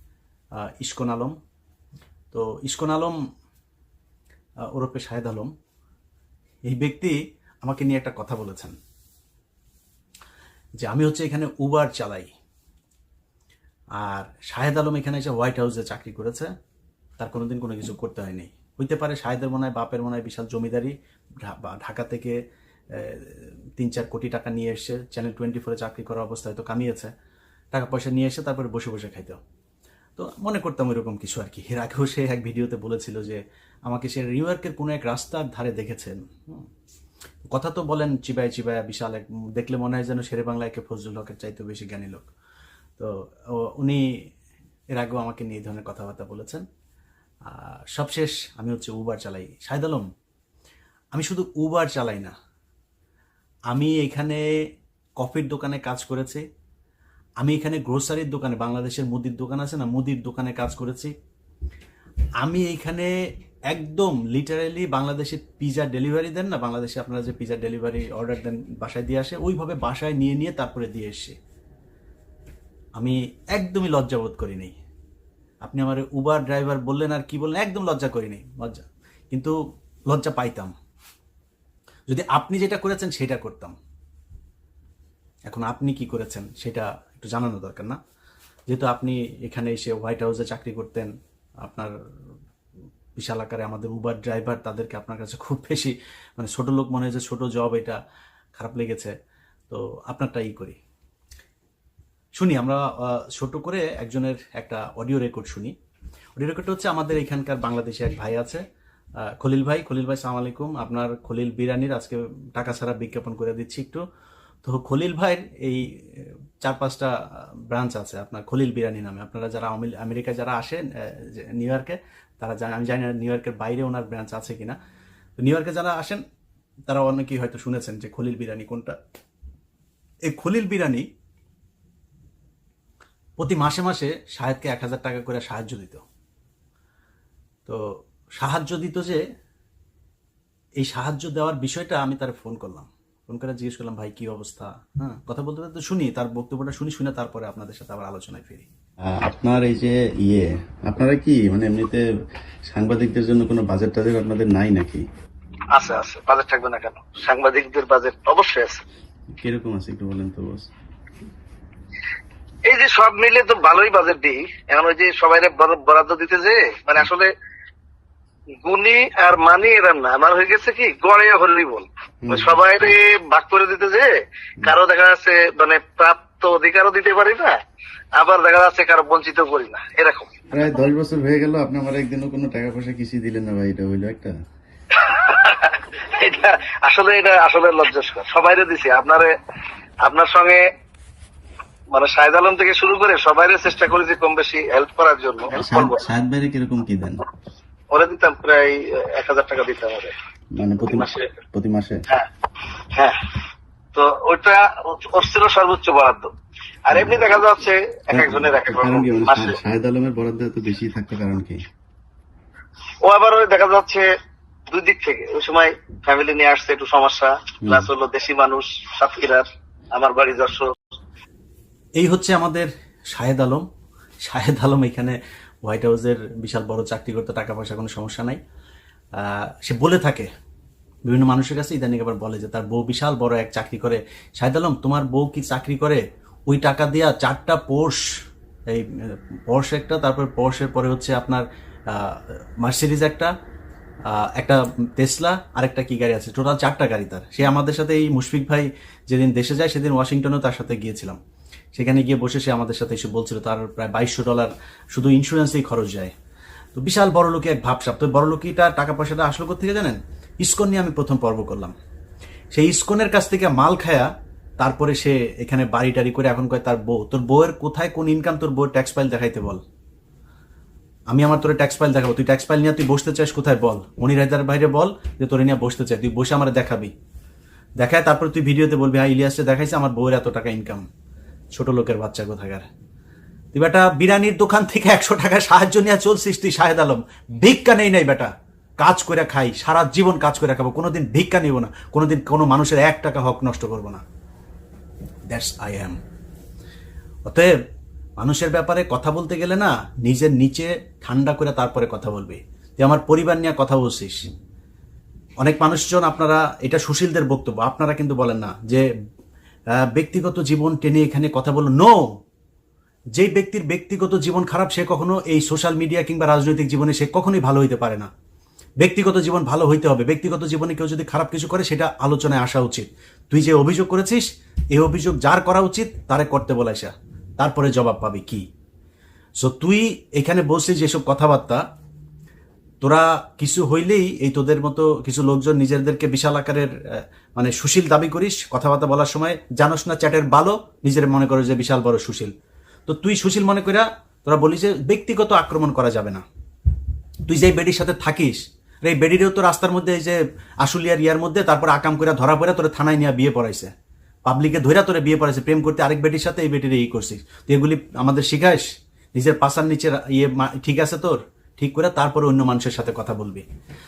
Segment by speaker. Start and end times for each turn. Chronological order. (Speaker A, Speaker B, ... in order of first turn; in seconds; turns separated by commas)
Speaker A: 0.6-1.3, Speaker A: 2.3-3.1, Speaker A: 4.7-5.5, Speaker A: 6.7-8.7, Speaker A: 10.8-12.3, Speaker A: 14.0-16.5, Speaker A: 17.2-22.4, Speaker A: 22.9-27.1, Speaker A: 27.7-29.4, Speaker A: 30.2-36.7, Speaker A: 37.5-42.3, Speaker A: 43.0-44.0, Speaker A: 44.9-46.6, Speaker A: 47.5-50.1, Speaker A: 51.1-52.3, Speaker A: 53.7-54.5, Speaker A: 55.2-56.4, Speaker A: 57.4-61.1, Speaker A: 62.4-63.1, Speaker A: 63.7-71.4, Speaker A: 73.0-74.7, Speaker A: 75.6-79.5, Speaker A: 80.1-80.7, Speaker A: 82.1-83.8, Speaker A: 85.5-88.0, Speaker A: 88.7-91.1, Speaker A: 91.6-91.9, Speaker A: 93.2-98.0, Speaker A: 98.5-99.1, Speaker A: 99.7-100.8, Speaker A: 102.3-105.7, Speaker A: 106.4-108.6, Speaker A: 109.4-114.0, Speaker A: 114.7-117.1, Speaker A: 117.7-124.8, Speaker A: 125.4-126.2, Speaker A: 126.9-129.0, Speaker A: 130.3-131.1, Speaker A: 133.4-136.0, Speaker A: 138.4-139.2, Speaker A: 140.8-148.7, Speaker B: 149.1-152.1, Speaker B: 152.7-155.0, Speaker C: 155.7-158.8, Speaker B: 159.3-160.7, Speaker C: 162.7-167.3, Speaker C: 168.6-177.6, Speaker B: 172.2-172.6, Speaker C: 178.2-180.4, Speaker B: 180.5-184.3, Speaker C: 184.9-189.3, Speaker C: 190.0-190.6, Speaker C: 191.9-196.1, Speaker B: 195.5-197.2, Speaker C: 197.9-200.1, Speaker B: 200.5-202.0, Speaker C: 200.8-201.4, Speaker C: 202.9-203.4, Speaker C: 203.9-206.3, Speaker C: 206.9-209.6, Speaker B: 208.1-211.6, Speaker C: 213.0-214.1, Speaker C: 214.7-220.7, Speaker A: 222.0-223.6, Speaker A: 224.3-228.4, Speaker A: 229.2-230.3, Speaker A: 231.1-238.1, Speaker A: 238.7-243.3, Speaker A: 244.1-251.2, Speaker A: 251.8-256.1, Speaker A: 256.8-261.7, Speaker A: 262.5-264.1, Speaker A: 264.6-269.6, Speaker A: 271.1-276.9, Speaker A: 277.8-280.9, Speaker A: 281.5-282.7, Speaker A: 283.5-294.0, Speaker A: 295.3-296.0, Speaker A: 297.3-297.5, Speaker A: 298.2-304.2, Speaker A: 305.4-308.8, Speaker A: 309.8-312.0, Speaker A: 313.1-318.1, Speaker A: 318.8-328.4, Speaker A: 329.4-331.6, Speaker A: 332.8-342.3, Speaker A: 342.9-346.2, Speaker A: 347.3-353.7, Speaker A: 354.3-363.4